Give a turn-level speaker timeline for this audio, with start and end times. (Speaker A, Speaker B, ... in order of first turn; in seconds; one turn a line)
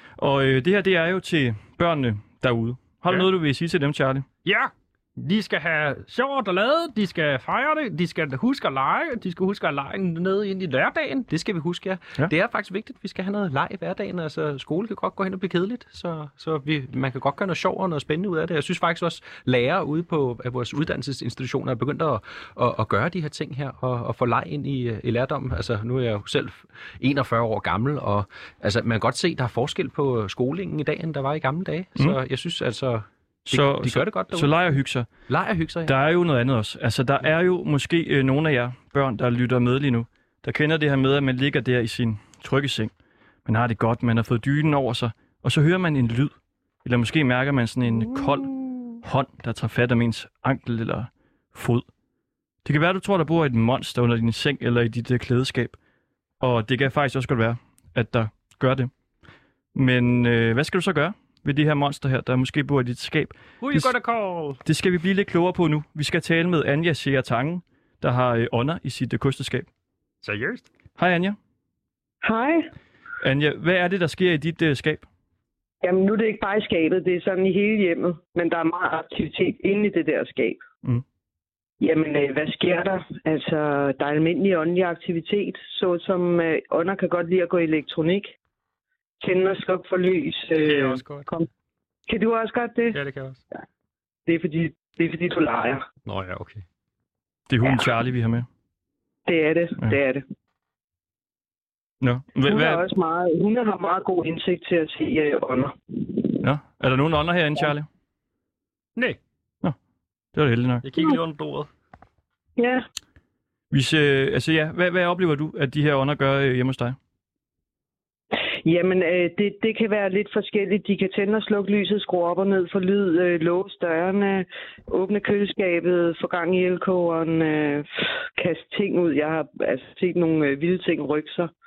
Speaker A: 0.2-4.2
Speaker B: 4.4-11.3
Speaker C: 11.3-34.6
Speaker A: 33.5-35.1
Speaker C: 35.3-35.9
Speaker A: 35.8-42.9
Speaker A: 43.5-46.3
Speaker A: 46.8-51.9
Speaker A: 52.6-55.8
Speaker A: 56.4-58.9
Speaker A: 59.7-63.9
Speaker B: 63.6-64.6
Speaker A: 64.6-69.7
Speaker B: 70.2-70.7
Speaker A: 71.0-71.4
Speaker D: 72.2-72.7
Speaker A: 73.2-75.0
Speaker D: 75.8-80.6
Speaker D: 81.8-88.3
Speaker D: 89.2-91.5
Speaker B: 90.6-91.3
Speaker D: 92.1-93.0
Speaker B: 92.9-93.4
Speaker D: 94.3-95.8
Speaker B: 96.0-96.6
Speaker A: 97.5-98.5
Speaker D: 99.2-100.2
Speaker A: 102.0-102.8
Speaker D: 102.5-106.2
Speaker A: 106.4-107.9
Speaker A: 110.3-110.9
Speaker B: 110.8-111.7
Speaker D: 112.6-112.8
Speaker A: 113.7-117.0
Speaker D: 118.6-131.5